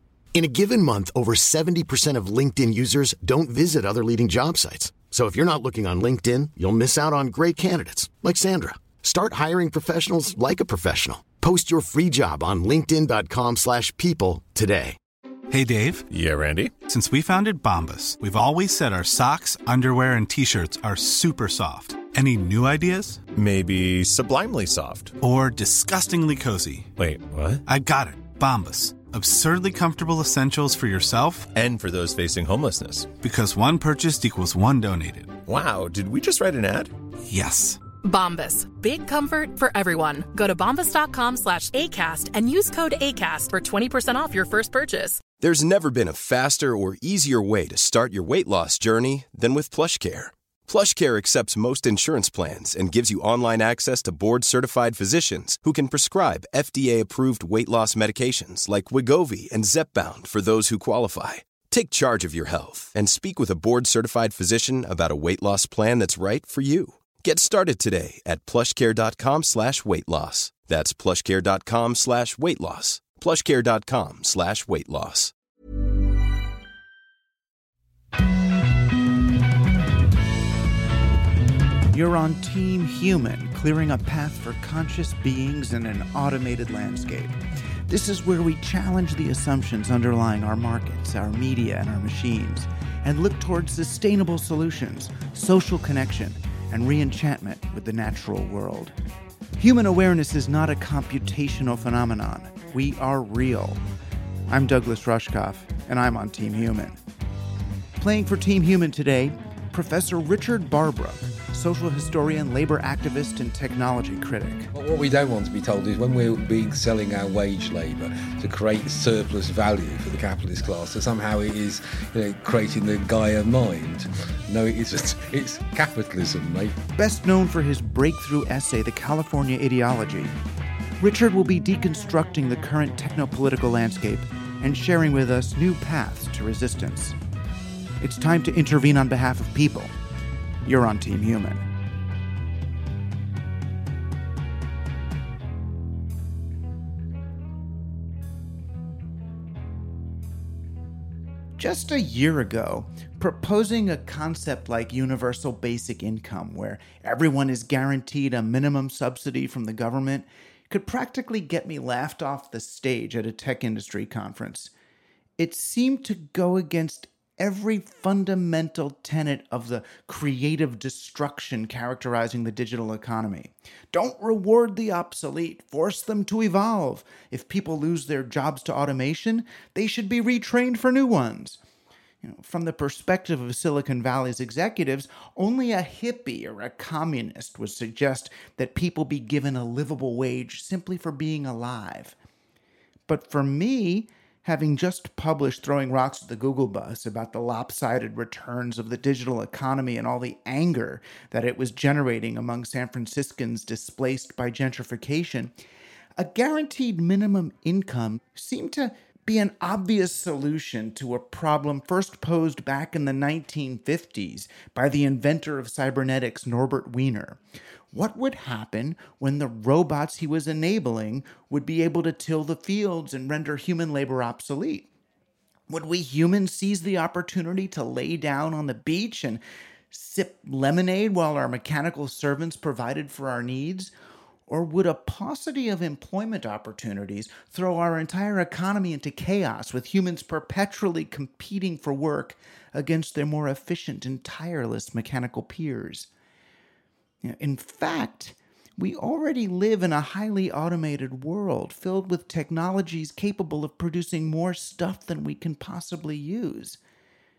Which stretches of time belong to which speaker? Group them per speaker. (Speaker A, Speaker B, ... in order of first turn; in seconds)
Speaker A: 0.3-15.0
Speaker B: 15.5-16.1, 16.8-23.2, 25.2-26.9, 27.7-31.5, 33.2-35.4, 37.3-37.8
Speaker C: 16.1-16.7, 23.4-25.1, 27.0-27.6, 31.6-33.1, 35.5-36.9
Speaker D: 38.0-45.2
Speaker E: 45.4-75.3
Speaker F: 81.9-98.9, 99.6-103.8, 104.5-107.0, 108.0-114.7, 127.0-130.4, 131.0-137.2, 138.0-139.9, 140.7-141.7, 151.6-164.7, 165.4-181.6, 182.2-192.2, 193.1-205.5, 206.2-217.4, 217.9-224.9, 225.7-233.9, 234.5-246.1, 247.2-256.8
Speaker G: 114.7-126.8